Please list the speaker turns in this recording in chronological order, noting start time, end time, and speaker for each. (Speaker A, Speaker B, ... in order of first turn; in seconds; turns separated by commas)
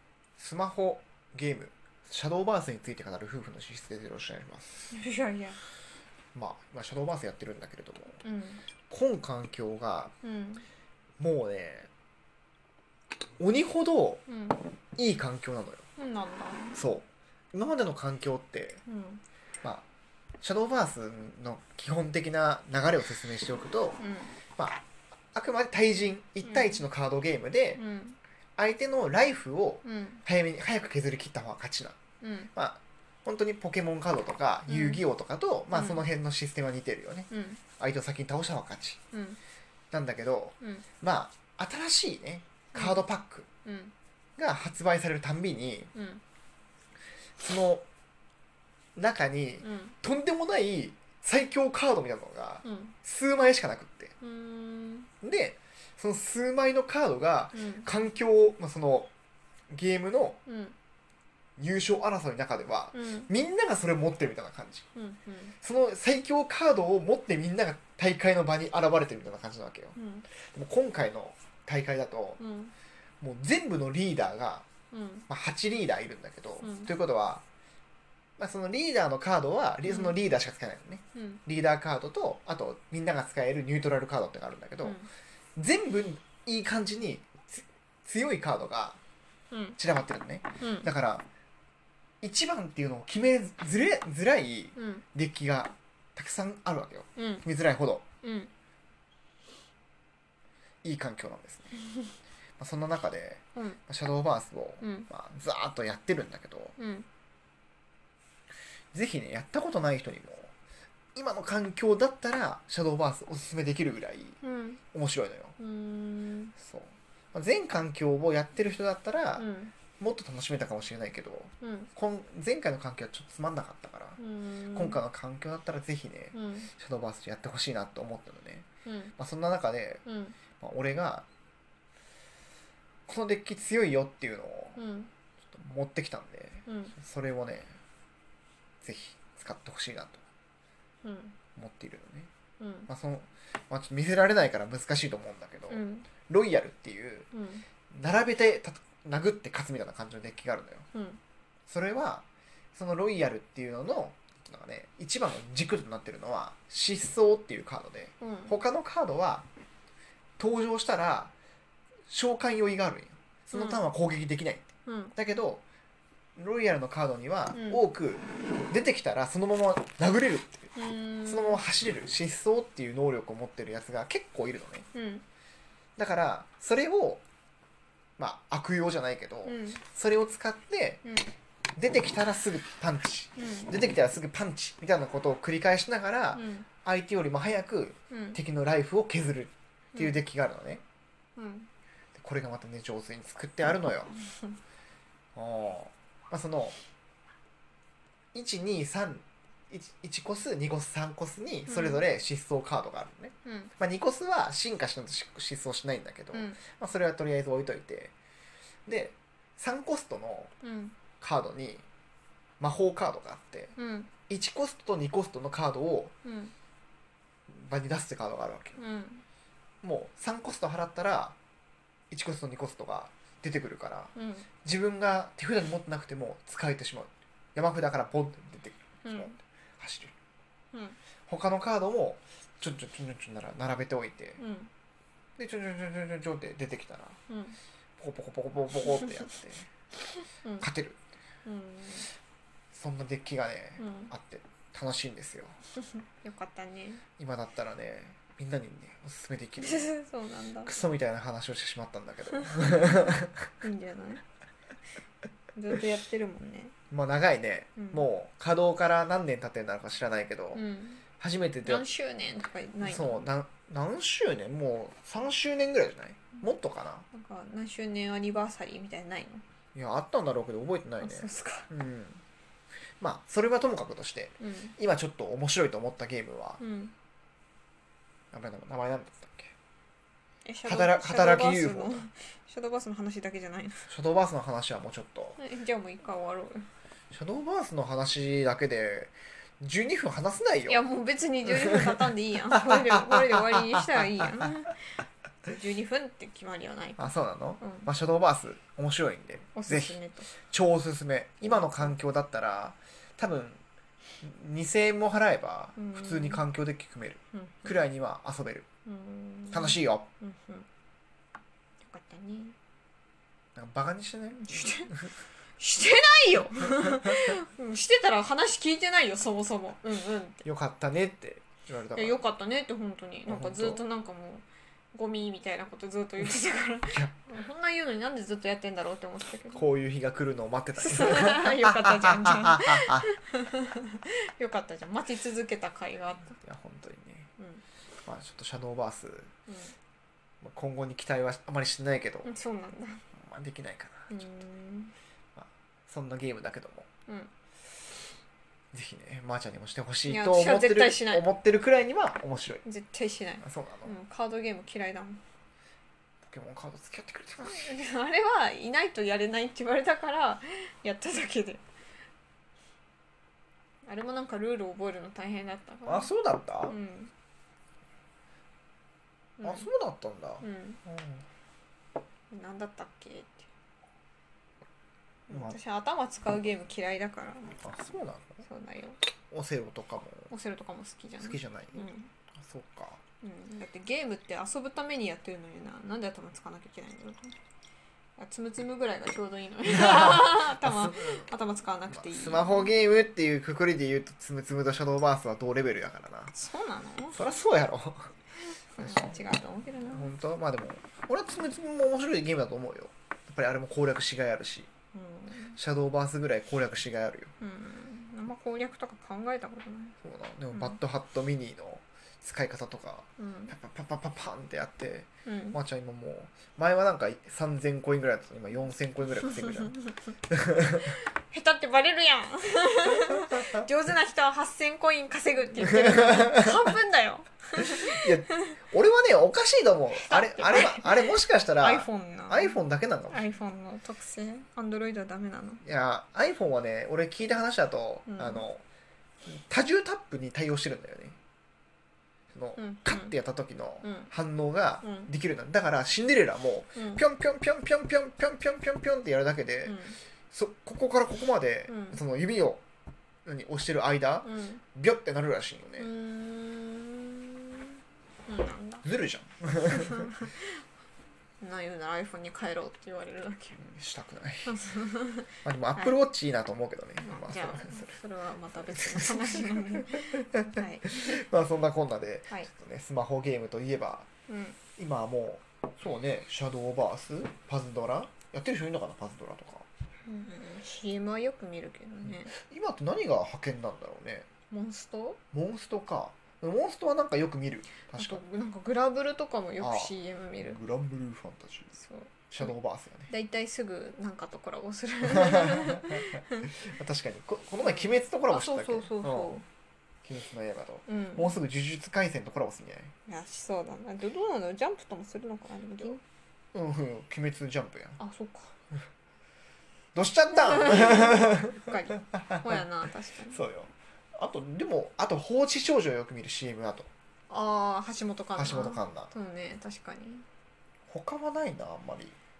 Speaker A: 0.4-4.9, Speaker B: 4.9-5.6, Speaker A: 6.3-8.2, Speaker B: 8.2-8.6, Speaker A: 8.9-10.1, Speaker B: 10.2-10.7, Speaker A: 11.2-11.9, Speaker A: 13.4-14.2, Speaker B: 14.3-14.6, Speaker A: 15.0-15.9, Speaker B: 16.0-16.8, Speaker A: 16.8-18.8, Speaker B: 18.9-19.2, Speaker A: 20.4-24.0, Speaker B: 24.0-24.4, Speaker A: 24.6-27.8, Speaker B: 26.4-26.9, Speaker B: 27.8-28.2, Speaker A: 28.6-32.0, Speaker B: 29.8-30.2, Speaker B: 32.2-32.5, Speaker A: 32.5-39.0, Speaker B: 34.7-35.0, Speaker B: 35.7-36.1, Speaker B: 37.3-37.6, Speaker B: 39.1-39.4, Speaker A: 39.9-43.5, Speaker B: 42.7-43.0, Speaker B: 43.6-43.9, Speaker A: 44.4-45.9, Speaker B: 45.9-46.2, Speaker A: 47.4-47.9, Speaker A: 49.0-54.1, Speaker B: 49.6-50.0, Speaker B: 52.6-53.0, Speaker B: 54.2-55.1, Speaker A: 55.2-59.1, Speaker B: 57.5-57.9, Speaker A: 59.7-60.4, Speaker B: 60.5-60.8, Speaker A: 61.6-64.9, Speaker B: 62.9-63.3, Speaker B: 65.0-65.5, Speaker A: 65.6-72.4, Speaker B: 70.0-70.3, Speaker B: 72.4-72.7, Speaker A: 73.2-74.7, Speaker B: 74.9-75.3, Speaker A: 75.3-77.4, Speaker B: 76.6-76.9, Speaker A: 78.4-85.0, Speaker B: 79.8-80.2, Speaker B: 81.2-81.4, Speaker B: 84.8-85.1, Speaker A: 85.6-89.0, Speaker B: 89.5-89.8, Speaker A: 89.8-91.3, Speaker B: 90.6-90.9, Speaker A: 92.2-98.0, Speaker B: 94.8-95.0, Speaker B: 97.2-97.5, Speaker B: 98.2-98.5, Speaker A: 100.8-101.8, Speaker A: 102.6-106.8, Speaker B: 103.5-103.8, Speaker B: 104.8-105.1, Speaker B: 106.8-107.1, Speaker A: 108.9-110.5, Speaker A: 111.2-114.4, Speaker B: 114.4-114.8, Speaker A: 114.9-115.5, Speaker B: 115.6-116.5, Speaker A: 116.6-124.2, Speaker B: 119.4-119.8, Speaker B: 121.6-121.9, Speaker B: 124.2-125.0, Speaker A: 124.7-128.7, Speaker B: 126.3-126.7, Speaker B: 128.8-129.1, Speaker A: 129.2-130.0, Speaker B: 130.1-130.4, Speaker A: 130.6-131.3, Speaker A: 133.1-134.8, Speaker B: 134.8-135.1, Speaker A: 135.5-137.7, Speaker B: 136.7-136.9, Speaker A: 138.8-140.2, Speaker B: 141.0-141.4, Speaker A: 141.6-142.3, Speaker B: 142.6-142.9, Speaker A: 142.9-147.3, Speaker B: 145.7-146.1, Speaker B: 147.3-147.7, Speaker A: 147.9-150.9, Speaker B: 150.9-151.2, Speaker A: 151.7-159.5, Speaker B: 158.2-158.6, Speaker A: 160.4-161.3, Speaker A: 162.1-165.7, Speaker B: 163.5-163.8, Speaker B: 164.9-165.2, Speaker A: 166.4-170.7, Speaker B: 167.5-167.8, Speaker B: 170.8-171.6, Speaker A: 171.3-174.9, Speaker B: 174.9-175.2, Speaker A: 176.0-177.2, Speaker A: 178.2-181.0, Speaker B: 179.4-179.8, Speaker B: 181.0-181.3, Speaker A: 181.8-190.8, Speaker B: 183.4-183.7, Speaker B: 186.3-186.7, Speaker B: 188.1-188.4, Speaker B: 189.9-190.2, Speaker B: 191.4-191.7, Speaker A: 192.2-194.2, Speaker A: 195.3-196.8, Speaker A: 198.3-208.1, Speaker B: 201.7-202.0, Speaker B: 203.4-203.7, Speaker B: 206.3-206.6, Speaker A: 208.9-210.5, Speaker B: 210.6-211.0, Speaker A: 211.2-211.8, Speaker A: 212.6-213.8, Speaker B: 213.8-214.1, Speaker A: 214.3-216.1, Speaker B: 216.2-216.5, Speaker A: 217.5-218.8, Speaker B: 218.8-219.2, Speaker A: 219.8-221.4, Speaker A: 222.1-230.2, Speaker B: 224.2-224.5, Speaker B: 229.0-229.4, Speaker A: 231.3-234.4, Speaker B: 234.4-234.7, Speaker A: 235.4-237.2, Speaker B: 237.3-237.6, Speaker A: 238.0-239.7, Speaker A: 240.6-241.0, Speaker B: 241.4-242.1, Speaker A: 242.7-245.6, Speaker B: 243.8-244.1, Speaker B: 246.2-247.0, Speaker A: 247.2-249.9, Speaker B: 249.6-250.8, Speaker A: 250.6-253.5, Speaker B: 252.6-253.0, Speaker B: 253.6-254.2, Speaker B: 255.6-256.7, Speaker A: 256.9-260.6, Speaker B: 257.8-258.1, Speaker B: 260.6-261.0, Speaker A: 261.2-261.9, Speaker B: 261.6-263.3, Speaker A: 262.8-267.1, Speaker B: 267.1-269.4, Speaker A: 269.8-272.2, Speaker B: 271.0-271.7, Speaker A: 273.0-276.6, Speaker B: 274.4-274.8, Speaker B: 276.6-276.9, Speaker A: 278.3-279.5, Speaker B: 280.4-283.9, Speaker A: 280.6-282.1, Speaker A: 283.9-285.4, Speaker B: 285.4-286.7, Speaker A: 287.1-290.8, Speaker B: 290.7-294.8, Speaker A: 291.6-291.9, Speaker A: 292.5-294.5, Speaker B: 295.5-297.9, Speaker A: 297.0-303.6, Speaker B: 299.6-300.3, Speaker B: 301.4-301.9, Speaker A: 304.2-308.7, Speaker B: 305.8-306.4, Speaker B: 307.3-307.8, Speaker B: 308.9-310.7, Speaker A: 309.5-310.1, Speaker B: 311.8-312.6, Speaker A: 313.6-315.1, Speaker B: 314.4-314.9, Speaker B: 315.6-320.4, Speaker A: 320.4-322.2, Speaker B: 321.9-329.6, Speaker A: 323.3-323.8, Speaker A: 329.5-333.1, Speaker B: 330.8-336.4, Speaker A: 336.4-337.3, Speaker B: 337.4-337.6, Speaker A: 338.1-339.3, Speaker B: 339.5-339.7, Speaker A: 340.4-342.3, Speaker B: 342.2-343.1, Speaker A: 343.1-344.2, Speaker B: 344.1-344.9, Speaker A: 345.4-346.9, Speaker A: 348.7-352.6, Speaker B: 350.1-351.2, Speaker B: 352.6-355.2, Speaker A: 353.4-353.9, Speaker A: 356.2-357.7, Speaker B: 357.4-361.6, Speaker B: 363.9-366.1, Speaker A: 365.9-366.8, Speaker B: 366.6-367.1, Speaker B: 369.4-369.7, Speaker A: 369.4-371.2, Speaker B: 370.4-370.8, Speaker B: 372.3-373.5, Speaker B: 375.3-377.6, Speaker A: 375.3-375.6, Speaker A: 377.6-378.4, Speaker B: 378.4-379.0, Speaker A: 379.3-380.3, Speaker B: 380.3-382.1, Speaker A: 381.2-383.0, Speaker B: 383.2-387.4, Speaker B: 388.2-392.8, Speaker A: 389.7-391.3, Speaker A: 391.9-396.4, Speaker B: 396.3-397.2, Speaker A: 397.1-398.1, Speaker B: 398.7-400.1, Speaker A: 398.8-399.2, Speaker A: 399.9-404.7, Speaker B: 404.9-405.6, Speaker A: 405.6-407.3, Speaker B: 407.4-410.0, Speaker A: 410.0-421.0, Speaker B: 413.2-413.6, Speaker B: 415.3-415.6, Speaker B: 421.3-428.5, Speaker A: 425.6-426.5, Speaker A: 427.8-433.3, Speaker B: 430.0-435.6, Speaker A: 435.6-438.6, Speaker B: 438.1-438.4, Speaker A: 439.3-441.2, Speaker A: 442.3-449.8, Speaker B: 442.6-443.1, Speaker B: 443.8-444.1, Speaker B: 444.8-445.1, Speaker B: 446.8-447.0, Speaker B: 449.6-450.0, Speaker A: 450.3-452.6, Speaker B: 451.7-452.0, Speaker A: 453.2-455.9, Speaker B: 454.2-454.6, Speaker B: 455.8-458.9, Speaker A: 458.8-460.1, Speaker B: 459.7-460.5, Speaker B: 461.4-463.6, Speaker A: 463.6-464.6, Speaker B: 464.5-466.0, Speaker A: 465.4-468.0, Speaker B: 467.0-471.2, Speaker A: 468.6-474.1, Speaker B: 474.3-474.6, Speaker A: 474.8-479.7, Speaker B: 480.1-482.3, Speaker A: 482.0-484.3, Speaker B: 484.5-485.2, Speaker A: 485.3-488.2, Speaker B: 487.9-490.6, Speaker A: 489.6-491.8, Speaker B: 491.8-492.5, Speaker A: 492.3-493.1, Speaker B: 493.1-496.5, Speaker A: 495.1-499.4, Speaker B: 497.6-499.4, Speaker A: 500.1-502.9, Speaker B: 500.9-501.4, Speaker B: 503.1-506.0, Speaker A: 506.5-508.0, Speaker B: 508.0-508.5, Speaker A: 509.9-512.6, Speaker B: 510.4-513.4, Speaker A: 513.3-516.9, Speaker B: 517.3-520.3, Speaker A: 518.4-519.1, Speaker A: 520.9-522.2